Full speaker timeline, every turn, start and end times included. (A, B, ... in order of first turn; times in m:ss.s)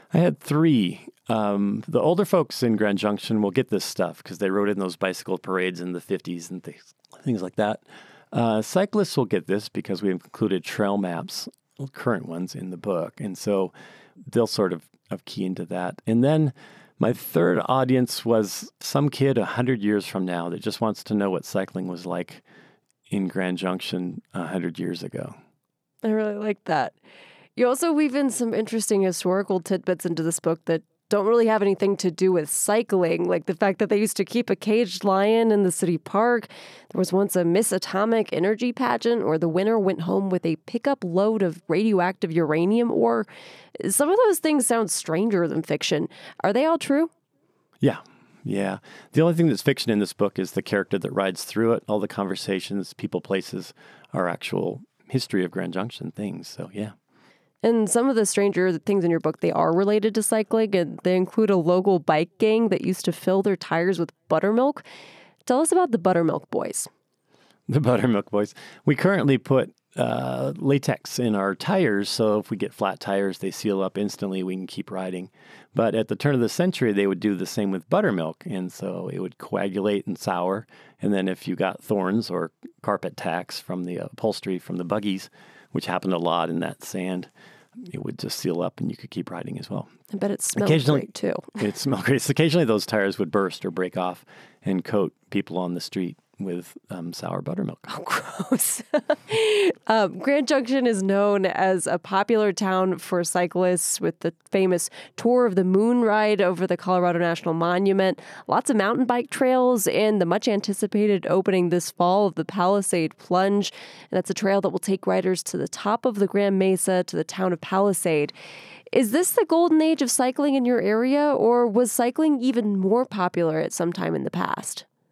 0:00.1-0:22.4 A
0:23.1-0:25.4 A
0:26.0-0:27.0 B
0:27.6-0:47.1 B
0:47.8-0:56.9 A
0:57.6-1:04.8 B
1:05.4-1:06.9 B
1:07.7-1:27.3 A
1:27.8-1:29.9 A
1:30.1-1:31.4 B
1:30.5-1:31.1 A
1:31.6-1:37.9 A
1:37.9-1:58.3 B
1:58.9-2:04.8 B